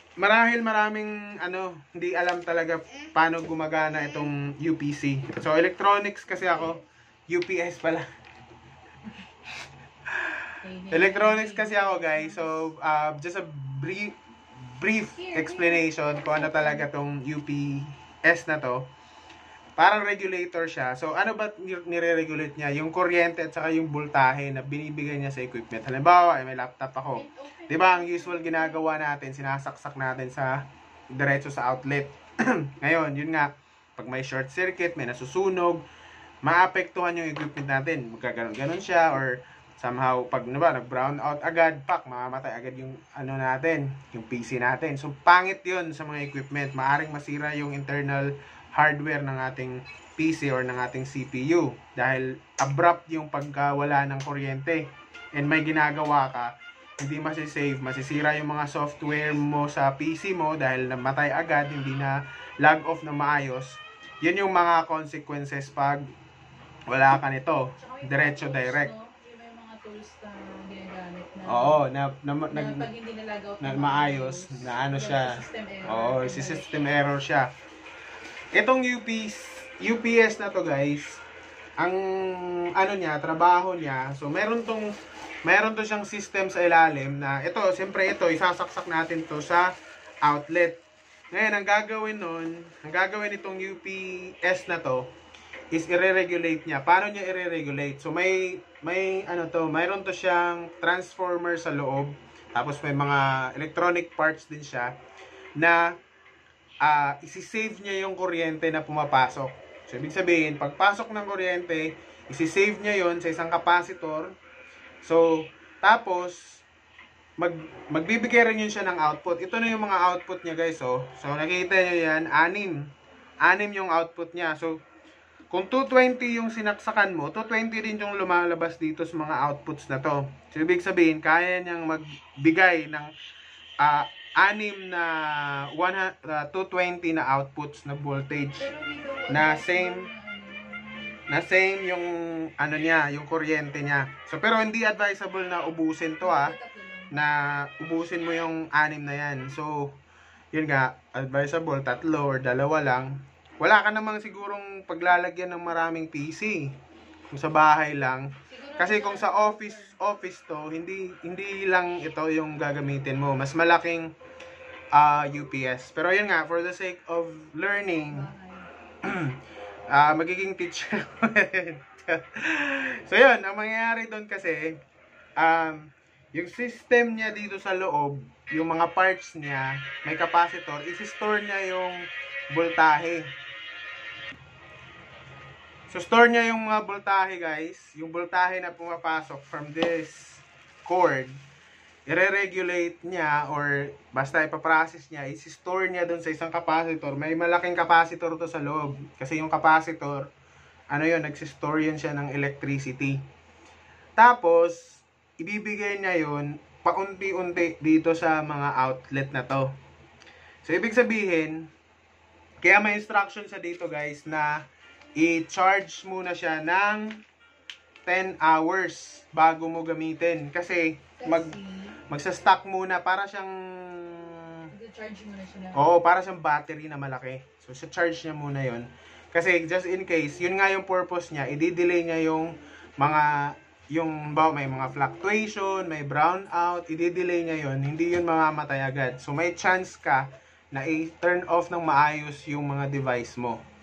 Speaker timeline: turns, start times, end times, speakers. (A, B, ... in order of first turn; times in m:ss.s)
0:00.2-0:08.1 A
0:10.1-0:14.2 A
0:10.6-0:12.7 B
0:14.7-0:18.9 A
0:15.1-0:16.9 B
0:19.8-0:35.8 A
0:27.1-0:29.0 B
0:36.4-1:06.0 A
1:06.9-1:08.9 A
1:07.7-1:11.8 B
1:11.4-1:12.9 A
1:12.5-1:17.0 B
1:13.6-1:17.5 A
1:18.5-1:21.2 A
1:21.8-1:24.9 A
1:25.4-1:30.8 A
1:31.3-1:35.1 A
1:35.7-1:44.9 A
1:45.6-1:45.9 A
1:46.8-1:54.3 A
1:55.0-1:56.6 A
1:57.4-2:02.9 A
2:03.4-2:04.8 A
2:05.5-2:13.1 A
2:13.8-2:18.7 A
2:18.6-2:21.2 B
2:19.3-2:20.1 A
2:21.3-2:26.5 A
2:26.2-2:27.2 B
2:27.1-2:29.9 A
2:30.5-2:36.8 A
2:37.3-2:44.1 A
2:38.4-2:40.0 B
2:44.9-2:48.3 A
2:48.1-2:48.7 B
2:49.0-2:49.4 A
2:49.9-2:54.8 A
2:55.4-3:03.3 A
3:05.9-3:11.4 A
3:12.1-3:20.3 A
3:20.9-3:23.2 A
3:24.2-3:29.7 A
3:30.6-3:31.7 A
3:32.6-3:34.6 A
3:35.2-3:37.2 A
3:38.0-3:41.6 A
3:41.2-3:42.0 B
3:42.1-3:44.7 A
3:44.7-3:45.8 B
3:45.7-4:03.6 A